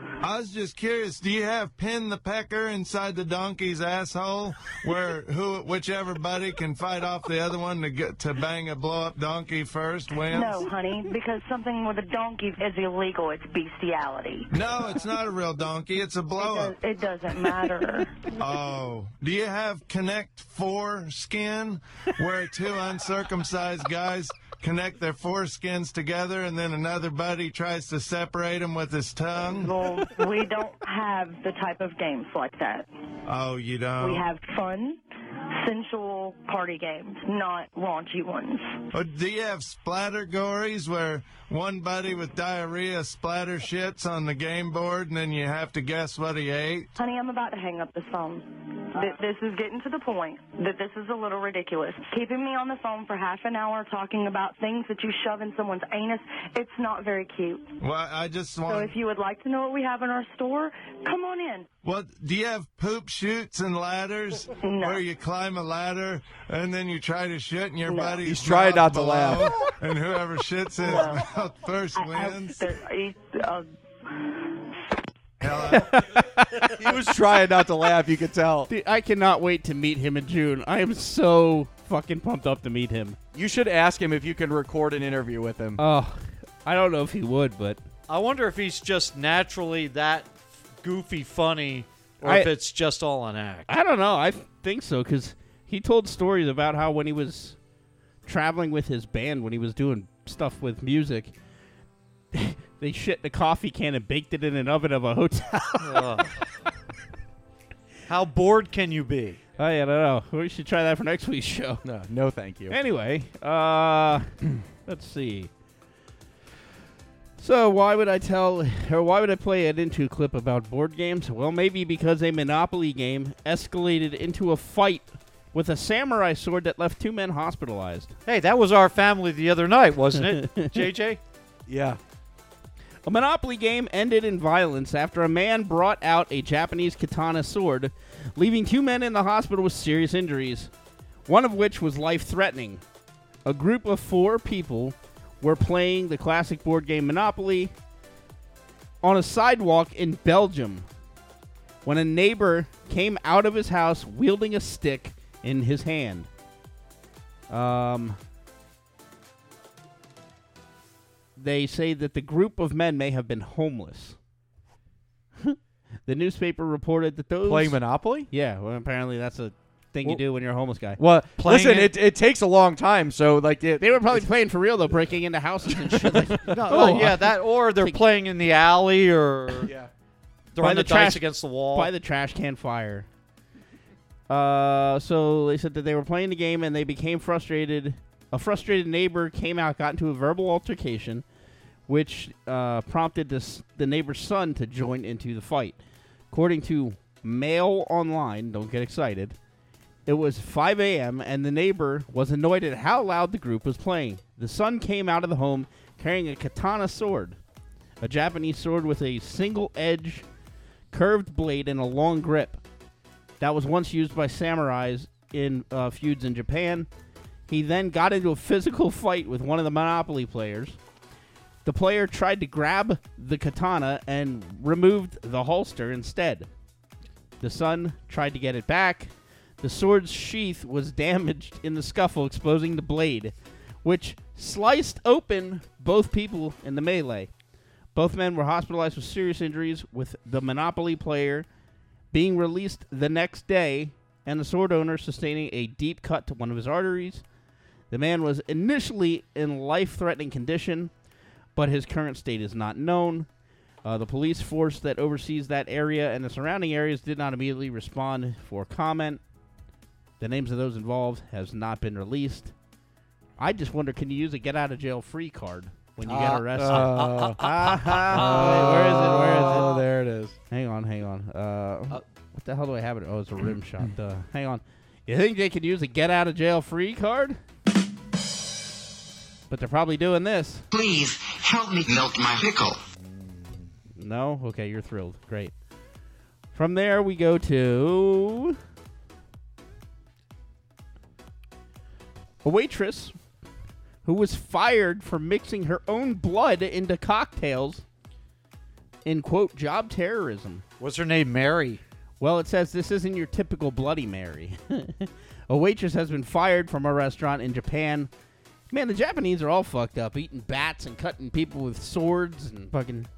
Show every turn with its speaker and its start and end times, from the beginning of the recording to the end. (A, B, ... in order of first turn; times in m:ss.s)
0:00.2-0:10.6 A
0:10.2-0:14.5 B
0:14.5-0:16.8 A
0:16.4-0:18.1 B
0:18.4-0:29.7 A
0:29.4-0:32.9 B
0:33.3-0:34.2 A
0:34.0-0:35.0 B
0:35.6-0:38.8 B
0:38.9-0:46.9 A
0:47.0-0:57.7 B
0:57.8-0:58.9 A
0:58.7-1:01.7 B
1:01.8-1:12.7 A
1:04.6-1:05.0 B
1:07.8-1:08.2 B
1:08.2-1:09.5 C
1:10.8-1:11.2 B
1:11.9-1:13.7 B
1:15.4-1:15.9 A
1:16.6-1:18.7 C
1:18.7-1:23.2 D
1:23.3-1:25.8 C
1:25.8-1:27.8 D
1:28.1-1:33.7 E
1:32.2-1:32.5 D
1:33.7-1:37.6 D
1:38.2-1:41.3 D
1:42.3-1:46.0 D
1:45.8-1:46.3 E
1:48.1-1:49.4 E
1:49.6-1:51.8 D
1:51.8-1:52.8 C
1:52.7-1:54.3 D
1:54.8-1:55.5 D
1:57.4-2:08.1 D
2:08.2-2:11.2 E
2:10.4-2:10.7 D
2:11.7-2:12.0 C
2:13.0-2:20.7 D
2:21.3-2:22.8 D
2:23.4-2:27.7 D
2:29.0-2:30.8 D
2:31.8-2:36.3 D
2:37.5-2:38.2 D
2:41.4-2:44.2 D
2:45.4-2:47.8 D
2:47.4-2:48.3 C
2:48.3-2:51.0 D
2:51.0-2:54.3 C
2:51.4-2:51.9 E
2:53.8-2:58.0 D
2:55.7-2:57.2 C
2:56.5-2:59.7 E
2:59.6-2:59.9 C
3:00.5-3:01.9 E
3:00.6-3:03.1 D
3:04.3-3:11.2 D
3:11.9-3:15.8 D
3:16.3-3:19.4 D
3:20.0-3:27.4 D
3:28.0-3:30.2 D
3:30.9-3:32.6 D
3:33.4-3:36.9 D
3:37.5-3:40.8 D
3:41.6-3:46.5 D
3:47.4-3:57.3 D
3:57.9-4:01.5 D
4:02.1-4:07.2 D
4:07.9-4:10.9 D
4:11.6-4:13.3 D
4:13.8-4:19.2 D
4:20.2-4:22.5 D
4:23.4-4:29.7 D
4:26.0-4:29.8 E
4:26.6-4:27.4 C
4:28.1-4:30.4 C
4:30.5-4:37.4 D
4:39.5-4:40.6 D
4:40.7-4:42.8 F
4:43.0-4:43.5 E
4:44.0-4:45.5 D
4:46.5-4:48.6 D
4:52.4-4:53.1 D
4:54.0-4:57.8 D
4:59.0-5:00.6 D
5:00.8-5:01.8 E
5:02.2-5:08.1 D
5:08.7-5:13.1 D